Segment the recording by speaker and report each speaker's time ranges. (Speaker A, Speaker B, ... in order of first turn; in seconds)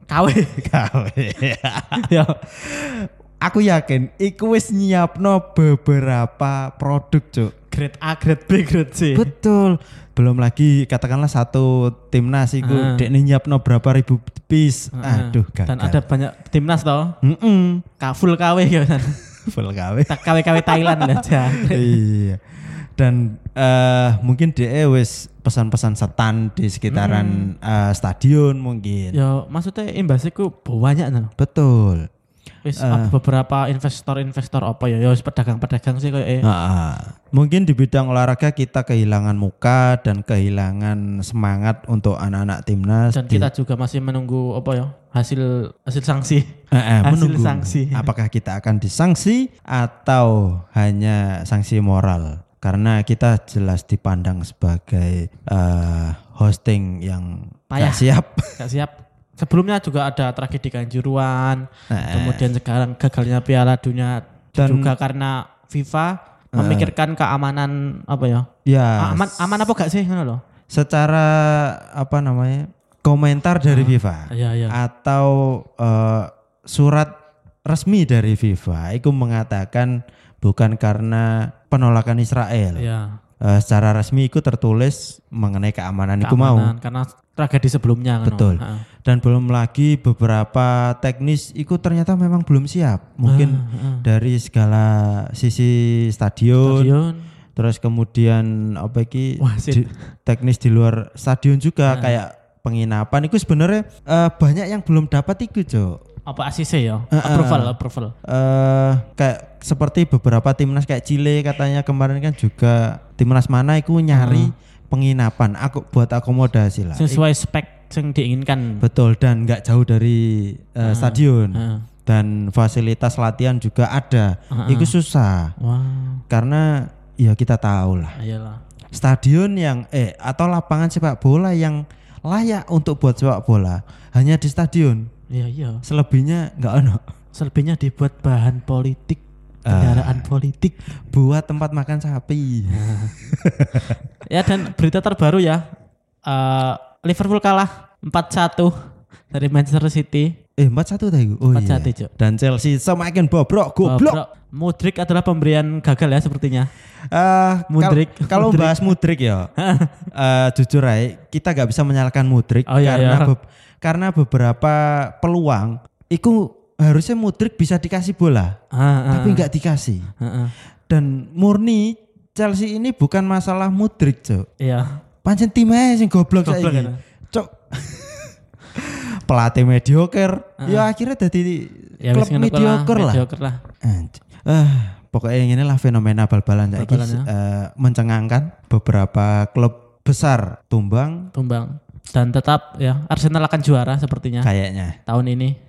Speaker A: 0.1-0.6, 1.9-2.4, 7.7-9.3, 12.6-13.1, 14.9-17.1, 18.0-19.2, 20.1-22.0, 26.9-27.5, 29.1-31.3, 32.6-36.5, 43.1-48.1, 57.7-68.5, 69.0-70.4, 73.7-74.8, 82.8-83.2, 86.2-88.8, 93.2-94.0, 96.6-97.2, 99.4-100.0, 101.9-102.2, 106.3-108.1, 114.1-114.5, 117.0-118.8, 120.8-121.9, 124.5-124.9, 125.6-126.2, 128.2-128.6, 135.3-135.8, 137.3-140.8, 142.7-143.2, 144.2-145.7, 146.2-148.7, 149.3-150.3, 151.5-152.1, 153.8-156.7, 157.7-158.9, 159.6-160.0, 162.7-163.3, 168.7-169.5, 170.2-170.5, 174.6-175.0, 176.4-177.0, 180.6-180.9, 182.0-183.6, 186.7-187.3, 191.3-194.5, 195.1-195.6
Speaker B: 0.6-7.5, 9.1-16.0, 17.2-17.8, 19.4-29.2, 31.4-32.0, 32.8-33.1, 36.4-43.5, 46.7-58.7, 61.9-62.5, 64.5-64.9, 66.5-66.9, 68.6-69.7, 70.7-77.1, 77.7-82.9, 83.4-86.7, 88.2-96.9, 97.5-106.0, 107.1-117.2, 118.8-125.5, 126.3-128.2, 128.9-135.1, 135.8-137.0, 139.7-140.3, 141.1-144.0, 150.6-154.2, 157.1-159.5, 160.1-168.6, 169.1-170.1, 170.9-174.4, 175.2-183.2, 183.8-191.3, 194.4-194.9